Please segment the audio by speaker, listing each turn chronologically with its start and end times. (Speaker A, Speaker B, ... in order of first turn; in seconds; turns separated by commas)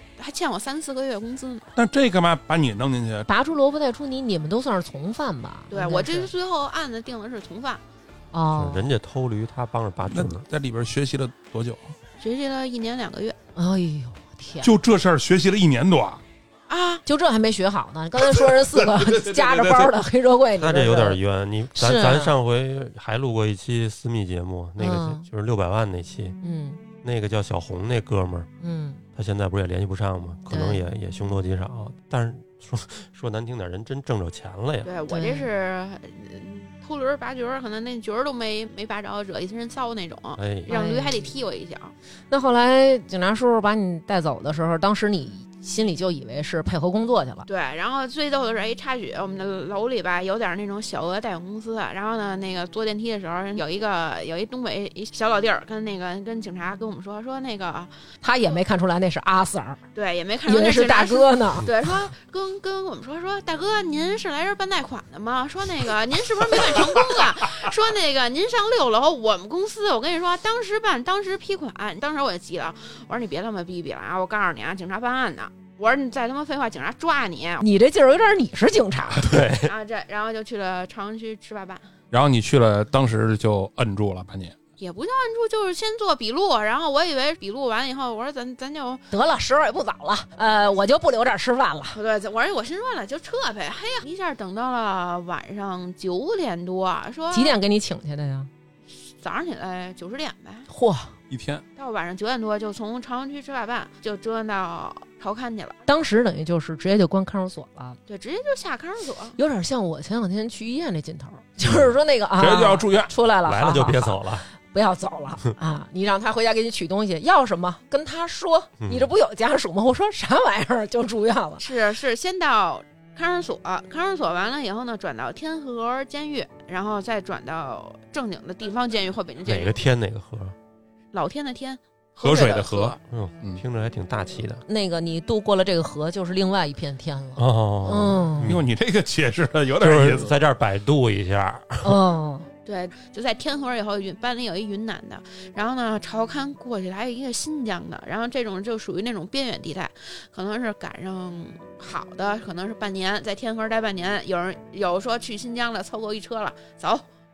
Speaker A: 0.2-1.7, Speaker B: 1.8-3.3, Speaker C: 3.3-6.3, Speaker A: 5.7-7.8, Speaker C: 8.3-8.9, Speaker D: 8.5-10.4, Speaker B: 10.1-11.9, Speaker A: 12.2-13.4, Speaker C: 13.6-14.8, Speaker B: 14.6-16.2, Speaker A: 16.7-17.0, Speaker C: 17.1-21.2, Speaker B: 18.3-19.9, Speaker D: 20.6-26.4, Speaker C: 21.7-22.3, Speaker C: 24.8-25.2, Speaker C: 26.4-26.8, Speaker D: 27.0-28.5, Speaker C: 28.6-29.0, Speaker D: 29.1-34.9, Speaker C: 30.5-30.8, Speaker A: 34.8-41.9, Speaker C: 35.1-35.5, Speaker D: 40.4-40.7, Speaker C: 40.7-41.3, Speaker C: 42.3-47.5, Speaker A: 47.5-57.9, Speaker C: 58.2-59.8, Speaker A: 59.9-77.6, Speaker C: 60.5-61.7, Speaker C: 77.6-79.3, Speaker D: 79.2-79.7, Speaker A: 79.6-81.8, Speaker B: 82.1-84.5, Speaker A: 84.8-89.0, Speaker C: 89.1-92.0, Speaker A: 91.9-97.5, Speaker C: 97.3-98.5, Speaker A: 99.0-100.7, Speaker C: 100.7-101.1, Speaker B: 101.3-101.6, Speaker A: 101.8-105.8, Speaker C: 105.8-108.0, Speaker A: 108.1-109.3, Speaker C: 109.4-121.6, Speaker B: 112.4-113.1, Speaker D: 113.4-114.5, Speaker D: 118.8-119.1, Speaker A: 121.6-129.7, Speaker D: 129.4-130.5, Speaker A: 131.1-133.0, Speaker B: 132.2-133.6, Speaker D: 133.1-134.6, Speaker C: 134.7-138.5, Speaker D: 137.3-138.7, Speaker B: 138.4-140.3, Speaker D: 139.8-142.0, Speaker C: 141.8-142.5, Speaker A: 142.7-157.0